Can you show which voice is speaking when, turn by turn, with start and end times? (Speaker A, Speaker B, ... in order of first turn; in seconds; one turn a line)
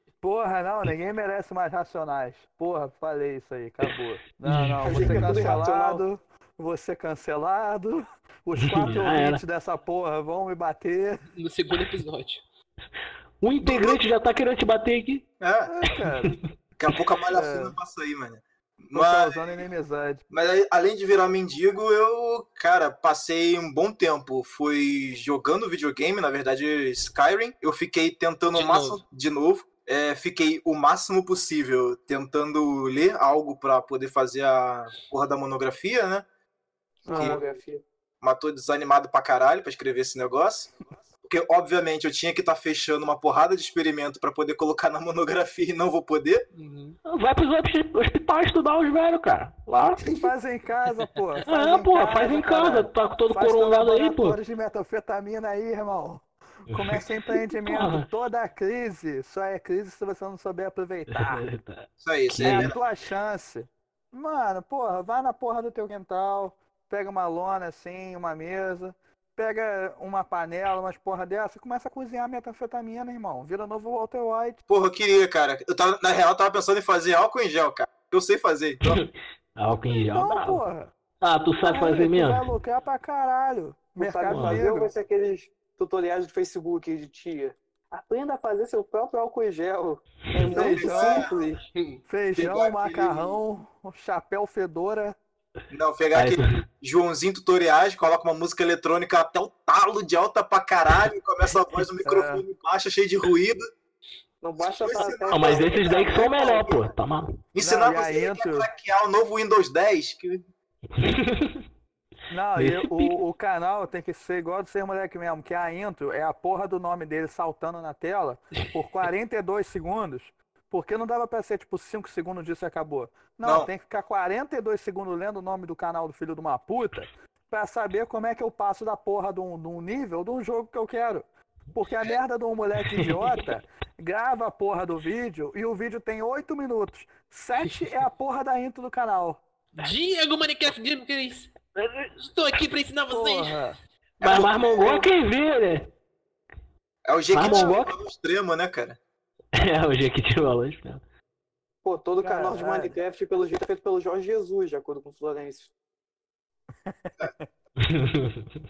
Speaker A: 0.2-11.2
Speaker B: 4.5-5.6
Speaker C: 4.8-6.0
Speaker B: 8.6-9.4
Speaker D: 11.4-12.4
Speaker B: 13.4-15.2
Speaker E: 13.6-14.1
Speaker E: 15.4-15.7
Speaker A: 15.7-16.3
Speaker B: 16.0-16.4
Speaker E: 16.8-19.6
Speaker A: 17.3-17.8
Speaker A: 18.9-20.2
Speaker E: 20.3-36.2
Speaker D: 28.5-29.0
Speaker A: 37.0-37.4
Speaker C: 37.1-37.8
Speaker E: 37.2-37.4
Speaker E: 38.2-40.7
Speaker E: 41.2-46.5
Speaker D: 46.6-47.0
Speaker B: 47.1-50.3
Speaker A: 50.0-61.5
Speaker B: 51.5-54.4
Speaker B: 56.7-58.1
Speaker B: 61.1-62.7
Speaker E: 62.0-62.8
Speaker A: 62.4-74.6
Speaker E: 74.7-79.0
Speaker B: 78.8-80.6
Speaker A: 79.9-80.9
Speaker B: 81.2-82.5
Speaker A: 81.6-84.9
Speaker C: 84.0-91.6
Speaker B: 84.3-84.6
Speaker E: 90.5-91.3
Speaker A: 90.5-91.2
Speaker A: 92.1-95.2
Speaker E: 92.3-93.4
Speaker E: 95.7-103.7
Speaker B: 96.2-96.5
Speaker A: 102.0-102.5
Speaker C: 104.4-106.7
Speaker E: 104.6-106.9
Speaker B: 105.3-107.3
Speaker E: 107.5-110.5
Speaker A: 107.6-108.7
Speaker B: 110.9-111.6
Speaker A: 112.3-139.4
Speaker B: 112.6-113.2
Speaker E: 123.4-123.7
Speaker B: 132.9-133.3
Speaker D: 139.8-141.5
Speaker B: 141.8-142.1
Speaker D: 142.2-143.6
Speaker A: 143.1-143.8
Speaker B: 144.2-145.9
Speaker E: 144.2-145.0
Speaker E: 147.1-149.0
Speaker B: 147.3-148.0
Speaker B: 149.6-151.0
Speaker C: 151.8-155.7
Speaker A: 152.2-153.0
Speaker A: 156.9-157.5
Speaker B: 157.8-158.5